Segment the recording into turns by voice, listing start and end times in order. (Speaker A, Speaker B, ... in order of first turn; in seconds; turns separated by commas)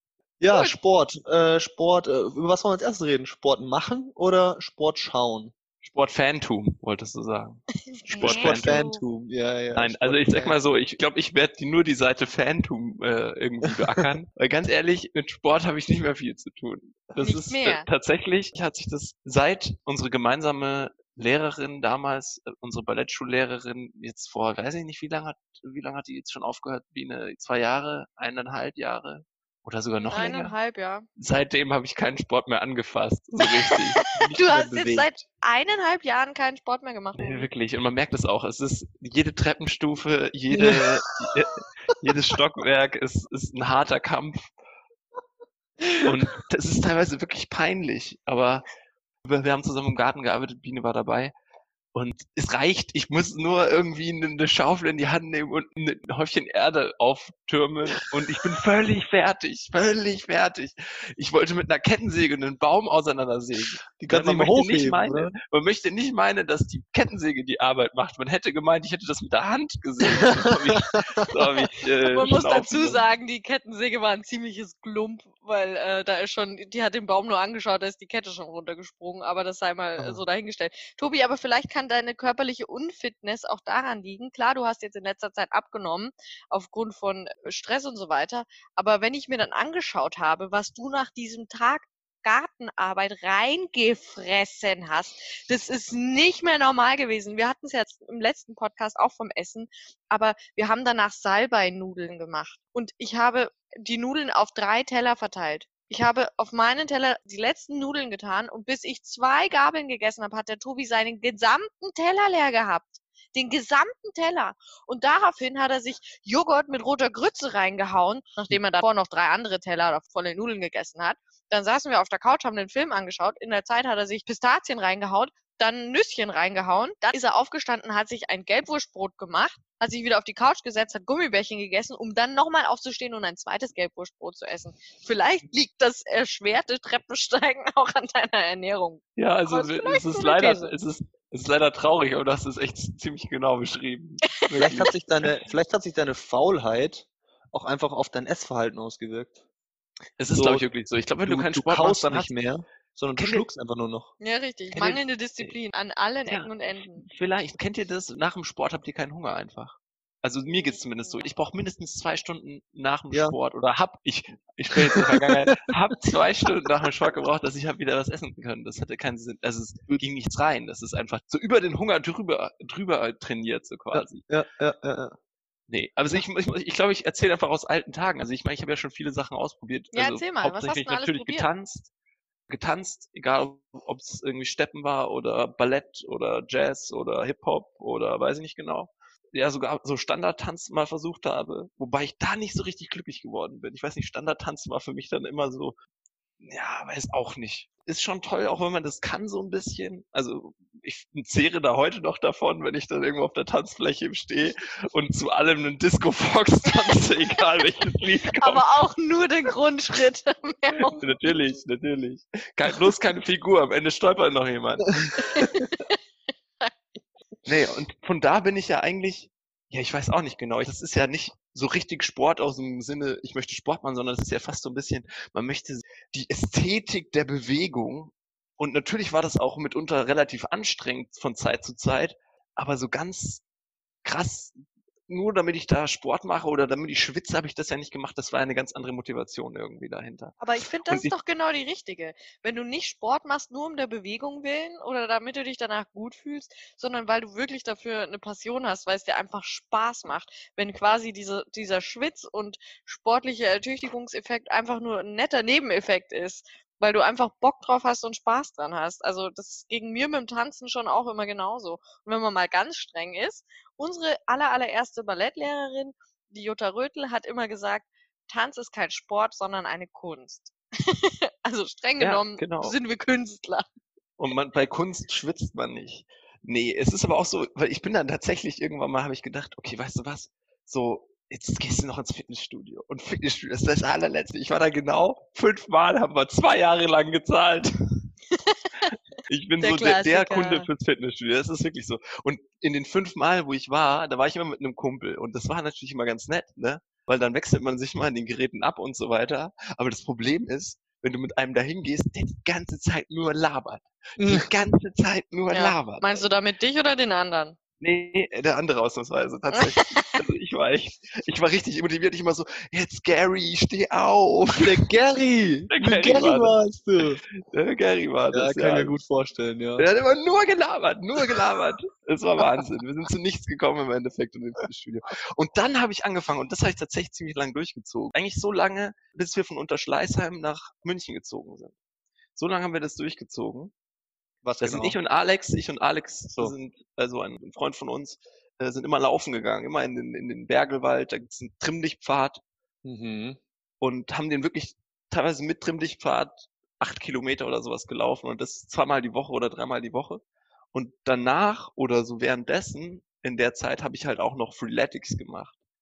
Speaker A: 0.4-5.5, Speaker B: 0.5-0.7, Speaker C: 5.8-8.8, Speaker B: 7.9-9.0, Speaker A: 8.1-10.6, Speaker C: 9.8-30.5, Speaker B: 17.2-17.9, Speaker B: 30.0-31.1, Speaker C: 31.2-34.0, Speaker B: 34.0-37.5, Speaker A: 34.0-35.1, Speaker C: 37.2-44.5, Speaker A: 40.5-41.3, Speaker C: 46.0-48.7, Speaker C: 49.2-51.3, Speaker C: 51.9-73.0, Speaker A: 63.9-65.3, Speaker A: 70.2-71.3, Speaker B: 72.1-140.7, Speaker C: 139.2-145.4, Speaker B: 144.4-144.7, Speaker A: 144.5-149.4, Speaker C: 150.2-152.3, Speaker A: 150.3-150.7, Speaker A: 151.2-154.1, Speaker C: 153.2-153.5, Speaker B: 154.2-157.1, Speaker C: 154.7-155.6, Speaker C: 156.2-174.3, Speaker B: 160.5-161.2, Speaker A: 164.7-165.1, Speaker A: 173.9-175.2, Speaker C: 175.7-181.9, Speaker B: 179.9-181.5, Speaker C: 182.5-195.8, Speaker C: 196.4-208.7, Speaker B: 208.4-211.2, Speaker C: 210.9-215.0, Speaker B: 215.2-215.9, Speaker C: 217.4-233.4, Speaker C: 234.0-234.6, Speaker C: 235.1-241.1, Speaker B: 240.4-273.7, Speaker C: 272.0-272.8, Speaker C: 274.2-288.1, Speaker B: 288.3-288.7, Speaker C: 289.3-306.3, Speaker B: 289.6-290.7, Speaker A: 304.2-304.4, Speaker B: 305.5-307.6, Speaker C: 307.8-314.9, Speaker B: 309.6-310.1, Speaker A: 314.6-317.2, Speaker C: 315.7-318.9, Speaker A: 318.3-319.9, Speaker C: 319.8-331.7, Speaker C: 332.3-333.7, Speaker A: 334.4-335.0, Speaker C: 334.6-342.4, Speaker A: 342.8-343.4, Speaker C: 343.8-350.2, Speaker C: 350.7-355.5